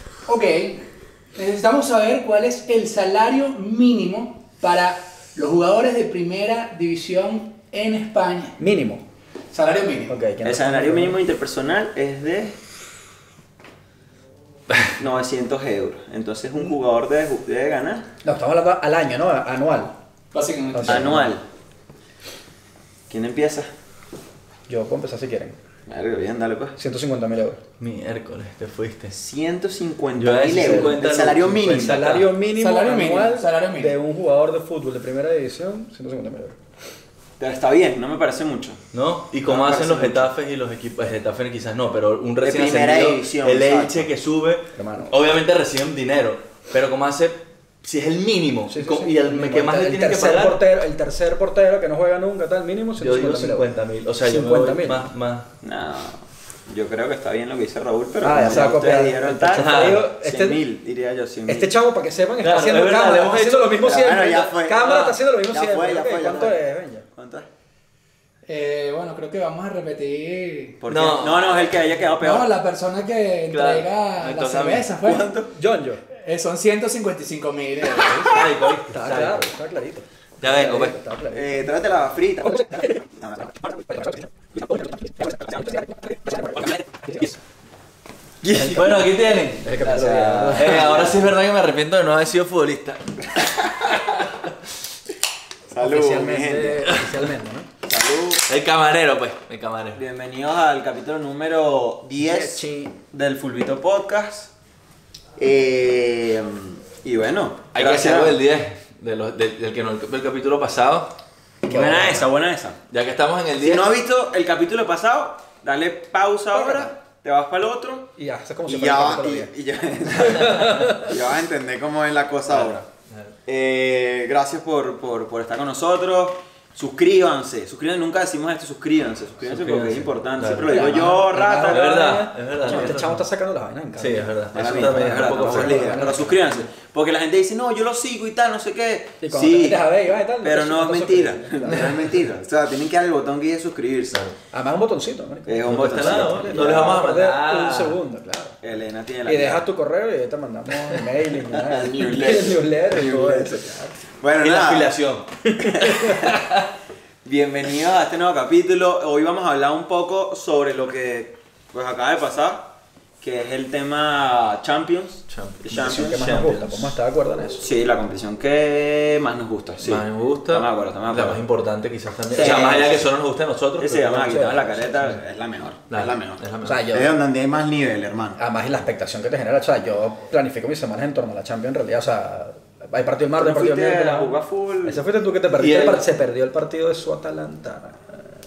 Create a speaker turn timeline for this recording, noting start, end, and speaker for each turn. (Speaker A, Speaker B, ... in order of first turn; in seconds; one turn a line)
Speaker A: 0.3-8.6
Speaker B: 8.6-9.0
Speaker A: 9.5-10.2
Speaker B: 10.1-11.2
Speaker C: 10.4-12.6
Speaker C: 14.9-18.1
Speaker B: 18.2-19.9
Speaker A: 20.3-21.2
Speaker B: 20.7-21.3
Speaker C: 20.8-21.4
Speaker C: 23.1-23.7
Speaker B: 24.7-25.6
Speaker C: 25.9-26.8
Speaker B: 26.8-27.6
Speaker D: 27.8-29.1
Speaker C: 29.1-32.0
Speaker D: 30.2-32.3
Speaker B: 30.6-31.1
Speaker B: 31.6-36.6
Speaker A: 32.6-33.9
Speaker C: 37.4-38.8
Speaker D: 38.9-50.6
Speaker C: 39.5-40.3
Speaker C: 42.4-44.1
Speaker B: 44.8-45.2
Speaker B: 48.7-53.7
Speaker D: 53.0-55.5
Speaker B: 54.2-55.0
Speaker C: 55.6-61.7
Speaker B: 58.2-60.6
Speaker D: 59.5-60.1
Speaker B: 61.5-67.1
Speaker D: 62.4-63.8
Speaker C: 63.8-66.6
Speaker D: 64.8-65.1
Speaker C: 67.2-67.5
Speaker A: 68.5-70.8
Speaker C: 70.8-72.5
Speaker D: 70.9-71.8
Speaker A: 72.2-75.3
Speaker D: 73.5-74.9
Speaker C: 75.0-75.5
Speaker B: 75.5-76.0
Speaker A: 76.2-78.4
Speaker D: 78.2-79.5
Speaker B: 78.9-81.8
Speaker D: 80.4-81.0
Speaker C: 81.3-83.9
Speaker B: 82.5-83.0
Speaker B: 83.9-87.3
Speaker C: 88.4-89.0
Speaker B: 88.5-88.8
Speaker D: 88.7-94.3
Speaker B: 89.6-90.9
Speaker C: 89.8-91.2
Speaker C: 95.7-96.9
Speaker B: 95.8-97.7
Speaker D: 96.9-97.3
Speaker C: 97.8-98.5
Speaker D: 98.5-100.0
Speaker C: 99.9-104.5
Speaker B: 102.2-103.0
Speaker C: 105.4-108.4
Speaker D: 107.7-111.1
Speaker B: 111.7-112.2
Speaker C: 111.7-112.8
Speaker D: 112.9-113.9
Speaker C: 113.6-118.1
Speaker B: 116.5-116.9
Speaker B: 118.2-119.5
Speaker C: 118.7-122.8
Speaker B: 120.0-121.2
Speaker D: 120.2-120.9
Speaker D: 122.5-123.3
Speaker C: 123.5-132.0
Speaker D: 129.4-131.1
Speaker B: 130.7-136.4
Speaker D: 131.7-133.2
Speaker D: 134.0-136.6
Speaker C: 134.5-139.8
Speaker B: 139.2-142.0
Speaker C: 140.4-144.2
Speaker B: 144.5-148.6
Speaker C: 145.5-147.0
Speaker D: 145.7-148.0
Speaker C: 148.6-149.7
Speaker B: 149.3-154.0
Speaker C: 151.4-154.9
Speaker D: 154.4-155.3
Speaker B: 155.4-156.4
Speaker C: 155.6-156.2
Speaker D: 156.1-156.7
Speaker C: 157.2-162.7
Speaker C: 163.2-166.3
Speaker D: 165.3-166.9
Speaker B: 165.7-167.6
Speaker C: 167.6-171.4
Speaker D: 169.8-175.1
Speaker C: 172.3-173.1
Speaker B: 172.4-172.8
Speaker C: 173.8-178.4
Speaker B: 174.3-175.2
Speaker D: 175.9-176.8
Speaker B: 176.6-177.1
Speaker B: 178.4-184.3
Speaker C: 183.4-185.0
Speaker B: 184.8-188.4
Speaker D: 185.6-186.1